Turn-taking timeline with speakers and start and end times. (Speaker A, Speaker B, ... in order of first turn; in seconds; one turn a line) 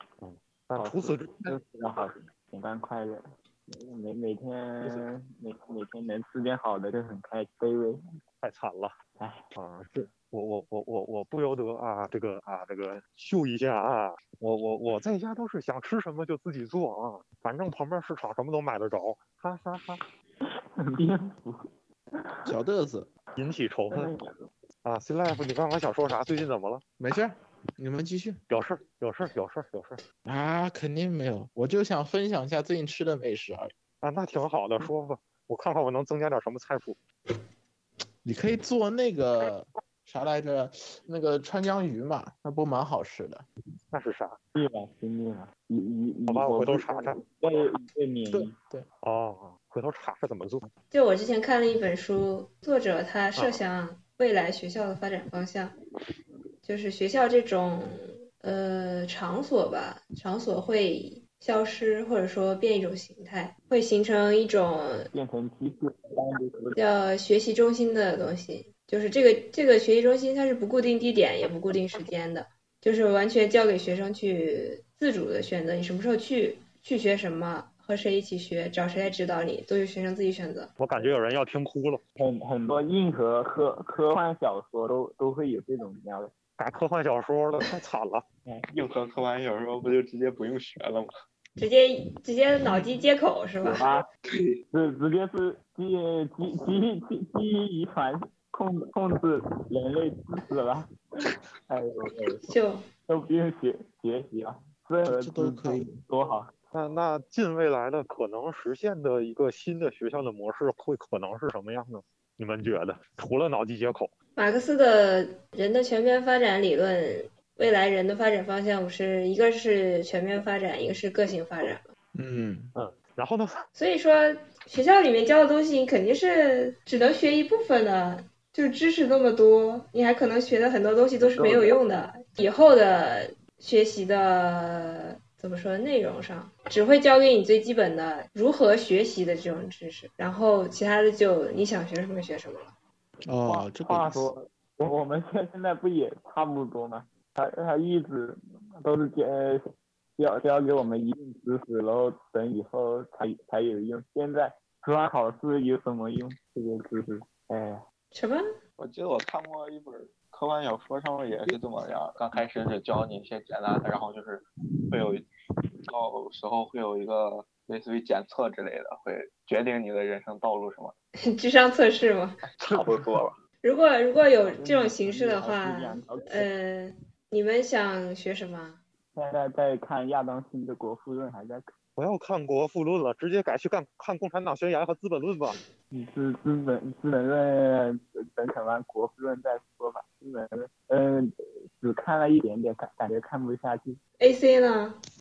Speaker A: 0.2-1.5
Speaker B: 0.8-8.2
Speaker A: 8.4-8.9
Speaker B: 9.2-9.5
Speaker A: 9.5-20.0
Speaker B: 20.4-22.5
Speaker C: 22.4-23.1
Speaker A: 23.4-24.1
Speaker B: 23.9-24.5
Speaker A: 24.8-26.8
Speaker C: 27.0-28.4
Speaker A: 28.5-30.0
Speaker C: 30.2-33.7
Speaker A: 34.0-37.0
Speaker C: 38.2-43.5
Speaker A: 43.9-44.4
Speaker B: 44.5-48.5
Speaker A: 46.3-47.2
Speaker C: 48.5-48.9
Speaker A: 49.0-50.7
Speaker D: 50.9-55.7
Speaker D: 56.6-65.1
Speaker B: 65.1-66.8
Speaker D: 66.8-80.7
Speaker A: 80.8-82.0
Speaker B: 82.2-86.3
Speaker A: 86.6-88.2
Speaker E: 88.7-91.1
Speaker D: 91.6-93.8
Speaker B: 93.7-94.0
Speaker E: 94.2-94.6
Speaker B: 94.7-102.5
Speaker D: 102.5-102.8
Speaker B: 103.1-106.5
Speaker C: 105.0-106.0
Speaker A: 106.7-114.1
Speaker D: 114.4-121.8
Speaker C: 122.1-122.7
Speaker A: 122.7-123.6
Speaker D: 123.7-142.7
Speaker C: 143.2-144.3
Speaker B: 143.5-157.8
Speaker D: 158.1-158.4
Speaker E: 158.8-165.2
Speaker E: 165.9-170.9
Speaker D: 171.2-172.4
Speaker E: 172.5-173.3
Speaker D: 173.6-178.8
Speaker B: 174.5-176.5
Speaker B: 179.1-181.7
Speaker A: 182.0-185.6
Speaker B: 185.9-194.0
Speaker D: 194.2-194.9